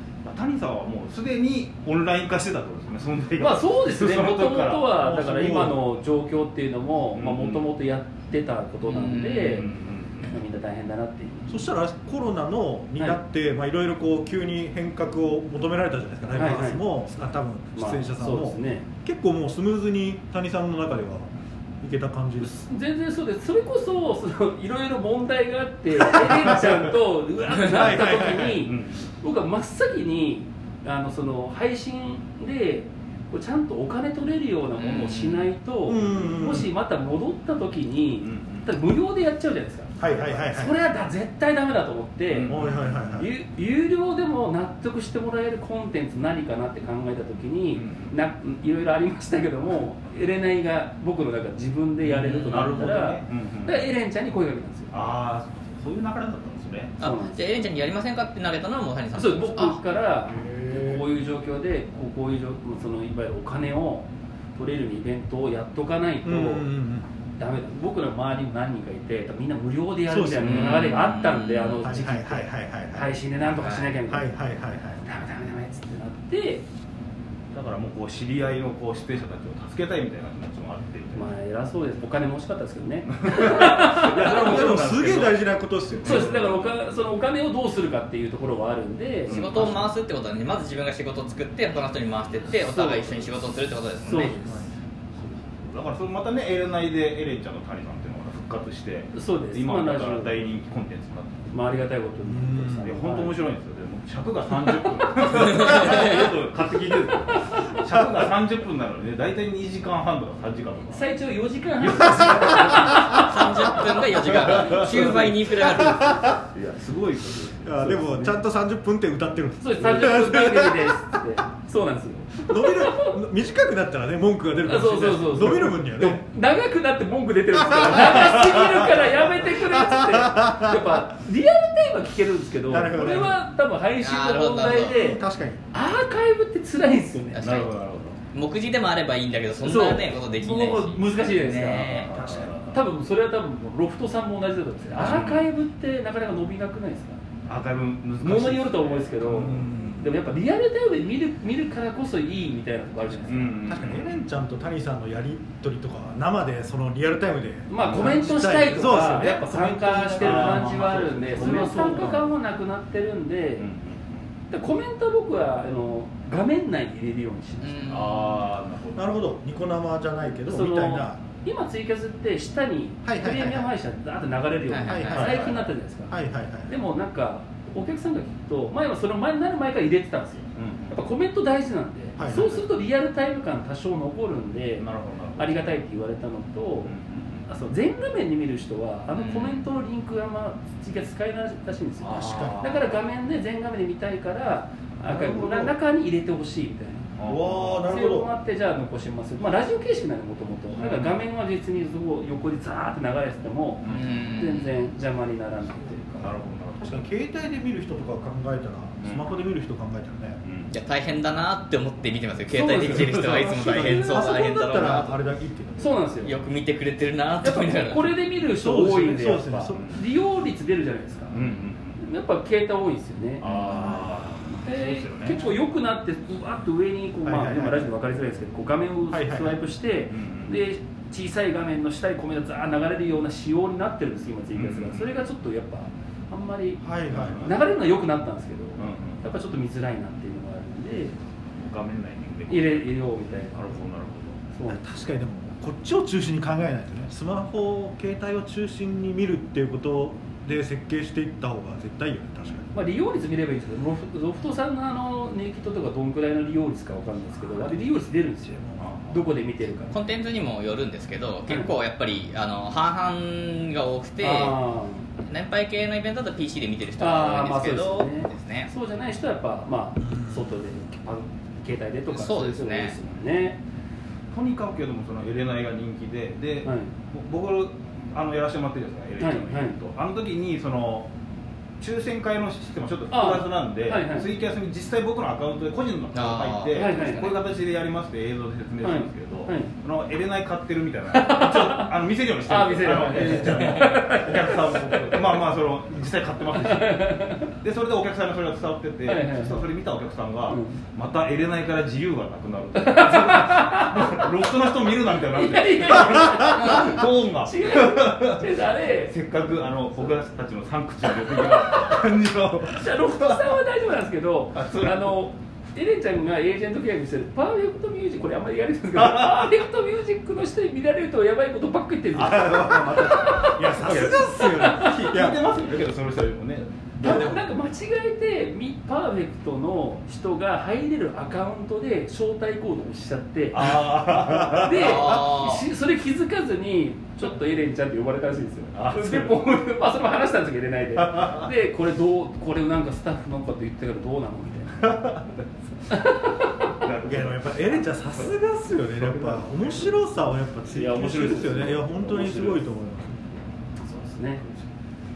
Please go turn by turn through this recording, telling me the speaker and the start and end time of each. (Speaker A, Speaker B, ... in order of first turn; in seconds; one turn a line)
Speaker A: 0.2-4.9
Speaker B: 3.4-9.7
Speaker C: 5.0-5.8
Speaker A: 7.2-7.6
Speaker D: 8.9-9.6
Speaker A: 9.5-10.4
Speaker B: 10.2-11.7
Speaker C: 11.5-21.3
Speaker B: 16.3-16.8
Speaker B: 17.8-18.9
Speaker C: 21.8-22.6
Speaker B: 22.4-42.6
Speaker C: 26.1-26.9
Speaker C: 27.5-28.7
Speaker A: 28.6-29.1
Speaker D: 34.8-35.5
Speaker C: 35.9-36.7
Speaker A: 38.2-38.7
Speaker C: 40.0-40.8
Speaker A: 42.3-43.3
Speaker C: 42.5-43.3
Speaker B: 43.1-54.9
Speaker A: 47.7-48.2
Speaker A: 52.0-53.9
Speaker D: 52.5-52.8
Speaker A: 54.9-57.0
Speaker D: 57.0-59.8
Speaker B: 57.0-57.5
Speaker B: 59.1-66.7
Speaker C: 60.3-61.0
Speaker C: 66.2-67.1
Speaker B: 67.4-74.3
Speaker C: 70.1-71.0
Speaker D: 70.4-71.9
Speaker C: 71.8-73.2
Speaker D: 73.6-74.0
Speaker C: 74.1-75.0
Speaker B: 75.0-76.7
Speaker A: 77.5-81.3
Speaker B: 81.2-84.8
Speaker A: 83.1-85.4
Speaker C: 84.2-86.5
Speaker A: 86.0-86.8
Speaker B: 86.0-89.8
Speaker A: 89.2-89.9
Speaker D: 89.3-94.3
Speaker B: 92.5-93.3
Speaker A: 94.0-94.3
Speaker B: 94.0-94.7
Speaker A: 95.2-101.5
Speaker B: 99.1-100.5
Speaker B: 101.5-103.3
Speaker C: 102.2-102.9
Speaker A: 102.8-111.1
Speaker D: 105.4-106.3
Speaker B: 110.9-113.8
Speaker A: 111.8-113.2
Speaker D: 113.0-116.3
Speaker A: 114.1-115.3
Speaker B: 114.8-115.2
Speaker C: 115.7-116.3
Speaker A: 116.5-118.4
Speaker C: 117.6-121.2
Speaker B: 119.6-123.2
Speaker C: 122.5-126.3
Speaker B: 124.7-137.6
Speaker C: 127.5-128.9
Speaker C: 129.4-130.9
Speaker C: 132.7-133.4
Speaker D: 134.0-135.0
Speaker C: 134.9-135.6
Speaker D: 137.4-137.7
Speaker A: 137.4-138.2
Speaker D: 138.3-142.1
Speaker B: 139.6-147.2
Speaker A: 142.0-142.8
Speaker C: 142.1-142.6
Speaker A: 145.0-145.5
Speaker A: 147.5-149.8
Speaker B: 148.2-153.6
Speaker C: 149.3-150.2
Speaker A: 153.2-154.3
Speaker C: 153.6-162.3
Speaker B: 157.7-163.7
Speaker A: 157.8-158.2
Speaker A: 160.2-162.2
Speaker A: 163.6-164.3
Speaker B: 164.5-167.9
Speaker D: 167.6-168.5
Speaker A: 167.9-169.2
Speaker C: 168.9-171.2
Speaker B: 170.4-176.1
Speaker C: 173.0-173.7
Speaker D: 174.7-175.4
Speaker C: 174.9-176.8
Speaker B: 176.7-186.9
Speaker A: 180.6-181.1
Speaker C: 182.2-182.6
Speaker A: 184.8-185.8
Speaker A: 186.8-187.5
Speaker B: 187.5-197.1
Speaker D: 189.1-189.7
Speaker C: 192.0-192.7
Speaker A: 192.1-193.0
Speaker C: 195.1-195.7
Speaker A: 197.2-197.8
Speaker C: 197.2-198.4
Speaker B: 197.6-206.3
Speaker A: 200.7-201.1
Speaker A: 203.8-204.4
Speaker D: 203.8-204.7
Speaker A: 206.2-207.1
Speaker C: 206.8-210.4
Speaker A: 209.0-209.3
Speaker A: 210.4-210.7
Speaker D: 210.7-215.2
Speaker C: 212.5-216.0
Speaker B: 212.7-213.4
Speaker B: 215.8-216.3
Speaker D: 216.2-218.1
Speaker B: 217.4-224.0
Speaker C: 218.5-219.8
Speaker A: 219.7-220.0
Speaker A: 221.3-222.0
Speaker A: 223.4-225.5
Speaker C: 223.4-224.1
Speaker B: 224.6-241.2
Speaker C: 227.2-228.0
Speaker C: 229.1-229.6
Speaker A: 230.1-230.6
Speaker A: 234.5-235.1
Speaker C: 236.8-237.5
Speaker A: 237.1-237.6
Speaker A: 238.8-239.3
Speaker A: 241.5-242.9
Speaker B: 242.5-243.7
Speaker A: 243.5-244.4
Speaker B: 244.5-244.8
Speaker C: 244.7-252.7
Speaker B: 252.7-260.0
Speaker C: 258.5-258.8
Speaker A: 258.8-259.2
Speaker D: 259.9-264.6
Speaker B: 261.5-261.7
Speaker B: 264.2-265.1
Speaker D: 265.2-268.7
Speaker B: 267.0-273.6
Speaker C: 270.1-270.5
Speaker D: 272.1-272.9
Speaker A: 274.3-281.1
Speaker B: 276.6-276.9
Speaker B: 279.2-279.8
Speaker A: 281.8-313.4
Speaker B: 283.1-284.3
Speaker D: 286.1-287.0
Speaker B: 286.7-287.4
Speaker B: 288.8-289.7
Speaker B: 291.1-291.9
Speaker B: 292.5-295.2
Speaker B: 296.6-297.5
Speaker B: 299.1-299.7
Speaker B: 300.5-300.8
Speaker B: 302.8-304.3
Speaker B: 305.2-309.1
Speaker D: 306.6-306.9
Speaker B: 311.1-325.2
Speaker A: 314.5-315.1
Speaker A: 318.9-319.6
Speaker A: 322.1-327.4
Speaker C: 323.4-325.4
Speaker B: 327.0-344.9
Speaker A: 333.5-335.1
Speaker D: 334.6-335.6
Speaker A: 338.7-339.4
Speaker A: 341.0-341.5
Speaker A: 344.8-345.4
Speaker B: 345.9-346.7
Speaker A: 346.8-348.3
Speaker C: 347.0-353.4
Speaker A: 348.9-350.0
Speaker B: 350.7-352.6
Speaker B: 353.8-354.5